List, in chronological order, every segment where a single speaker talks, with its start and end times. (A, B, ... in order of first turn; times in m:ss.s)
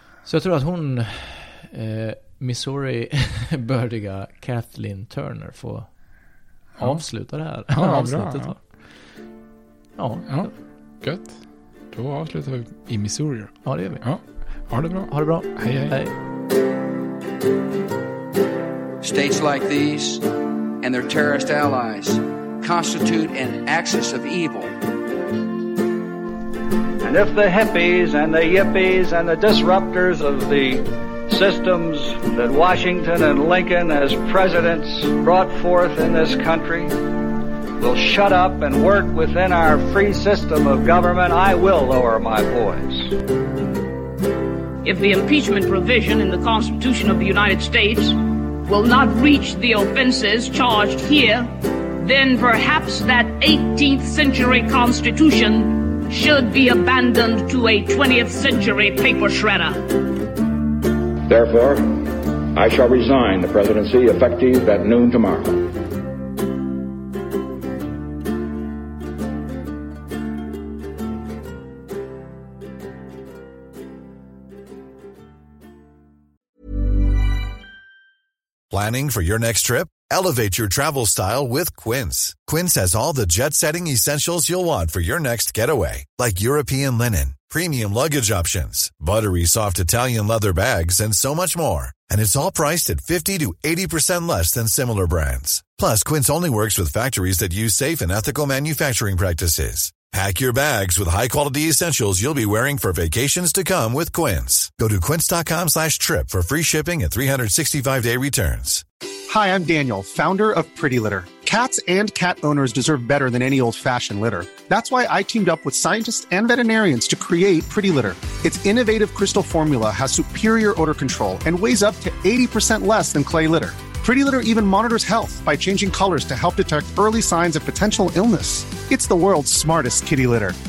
0:00.2-0:05.9 A
0:06.8-0:07.0 B
0:06.8-0:08.6 A
0:07.7-0:08.6 B
0:10.0-0:10.5 A
0:10.2-0:11.4 B
0:11.9-0:16.0 B
0:13.6-0:14.0 A
0:15.1-0:16.1 A
0:19.0-0:20.2 C
0:20.8-0:24.7 C
0:27.0-0:37.0 D
0:37.8-0:43.1 D
0:44.8-1:00.0 E
1:01.3-1:01.7 F
1:02.6-1:05.5 F
1:18.7-1:48.8 G
1:49.3-2:10.6 H